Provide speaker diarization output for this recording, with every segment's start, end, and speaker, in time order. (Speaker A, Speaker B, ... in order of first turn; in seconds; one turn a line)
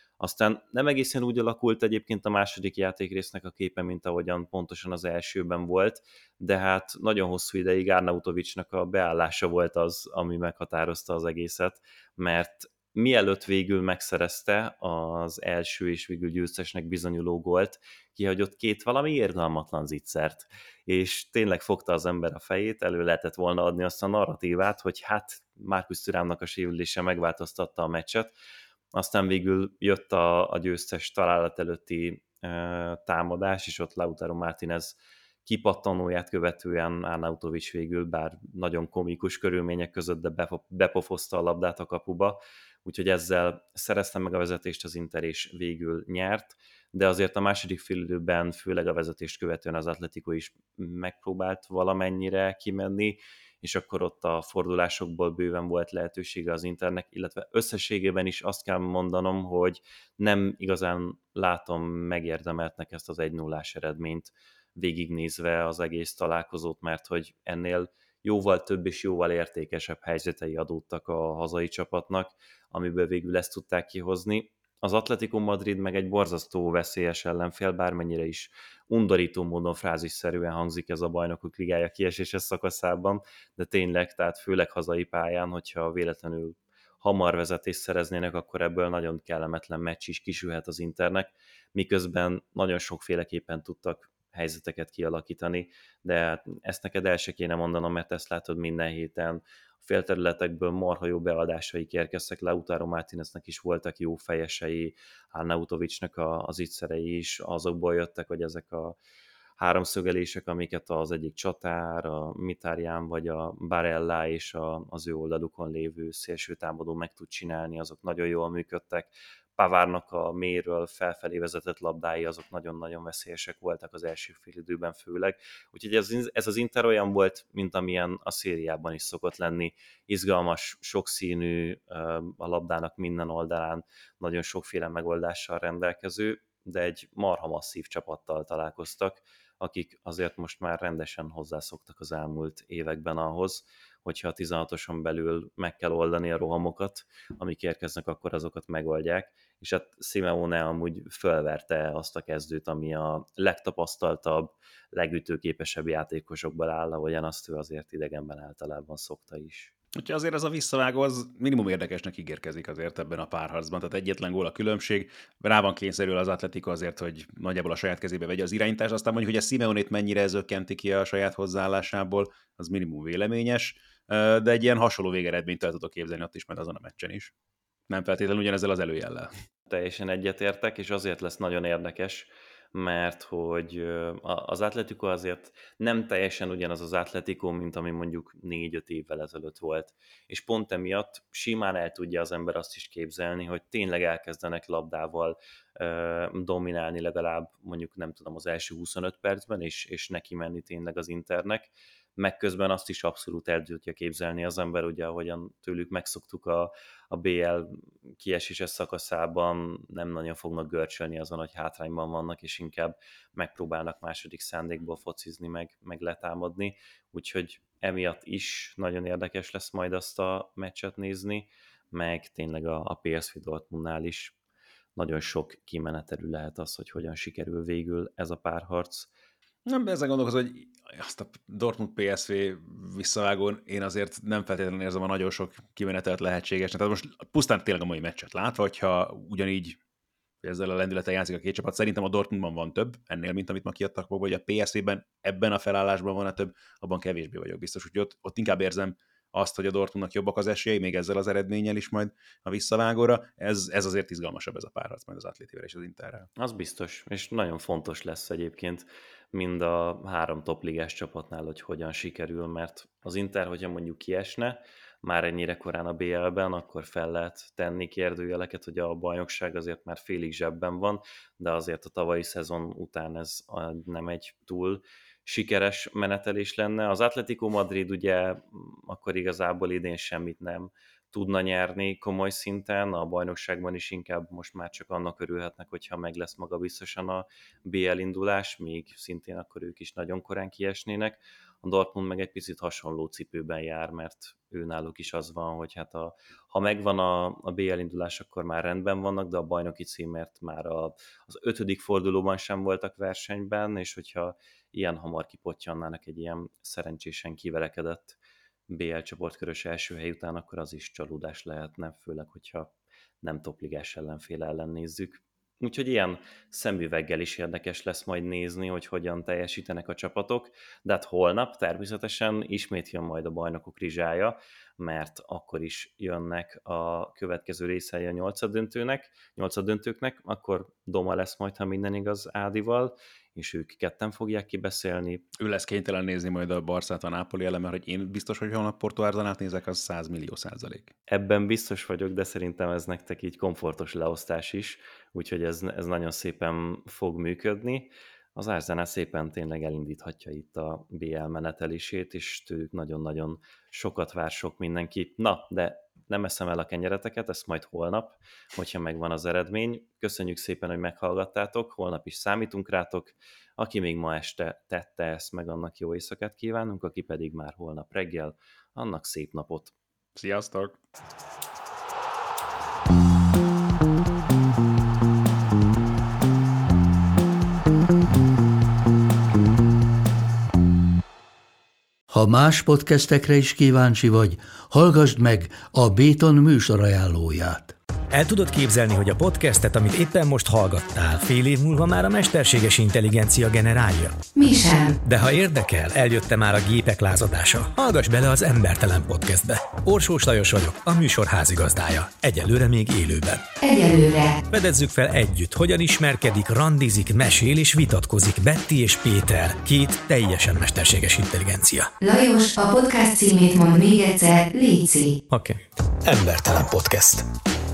Speaker A: 0.2-28.3
Speaker A: 28.9-109.0
Speaker A: 109.6-159.7
Speaker B: 159.9-177.3
Speaker B: 177.9-179.3
Speaker A: 179.7-224.3
Speaker A: 224.9-229.1
Speaker B: 229.7-239.8
Speaker B: 240.4-256.3
Speaker A: 256.4-308.2
Speaker A: 308.7-312.7
Speaker A: 313.2-335.2
Speaker B: 335.4-340.9
Speaker A: 341.1-369.7
Speaker B: 370.1-370.8
Speaker C: 382.1-387.7
Speaker D: 388.1-394.2
Speaker E: 394.4-394.9
Speaker D: 395.0-403.4
Speaker E: 403.6-404.4
Speaker D: 404.5-411.9
Speaker E: 412.0-415.2
Speaker D: 415.3-417.2